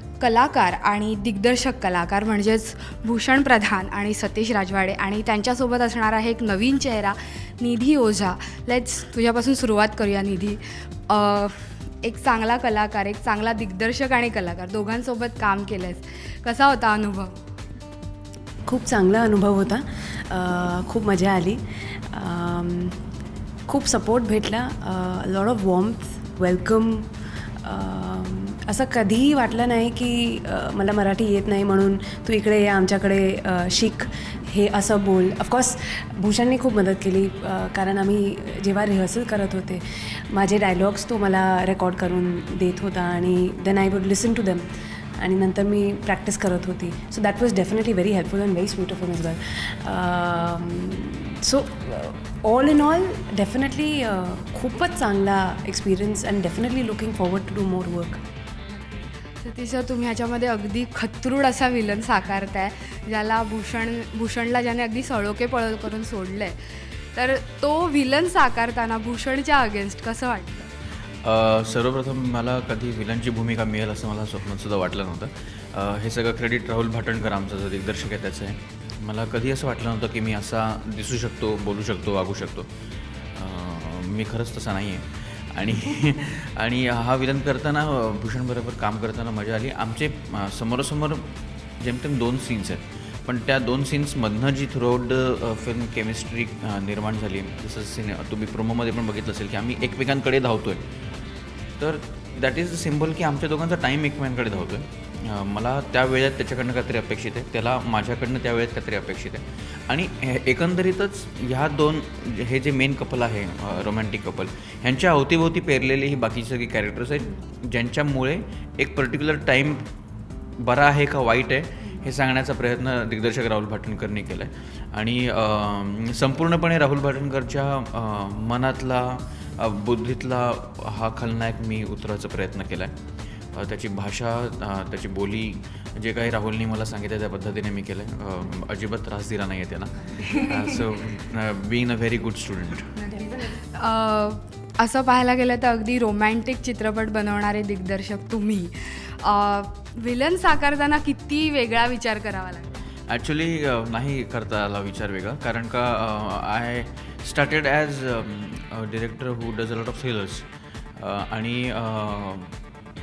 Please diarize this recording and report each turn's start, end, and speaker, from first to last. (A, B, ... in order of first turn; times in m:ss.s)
0:00.2-0:17.4 A
0:18.6-0:23.0 B
0:23.7-0:58.2 B
0:58.7-1:06.6 A
1:07.1-1:10.7 A
1:11.2-1:22.7 C
1:23.4-1:40.8 C
1:41.8-1:59.8 C
2:00.6-2:12.9 C
2:13.5-2:23.0 C
2:20.1-2:20.6 B
2:23.0-2:23.7 B
2:23.0-2:32.7 A
2:33.1-2:42.5 C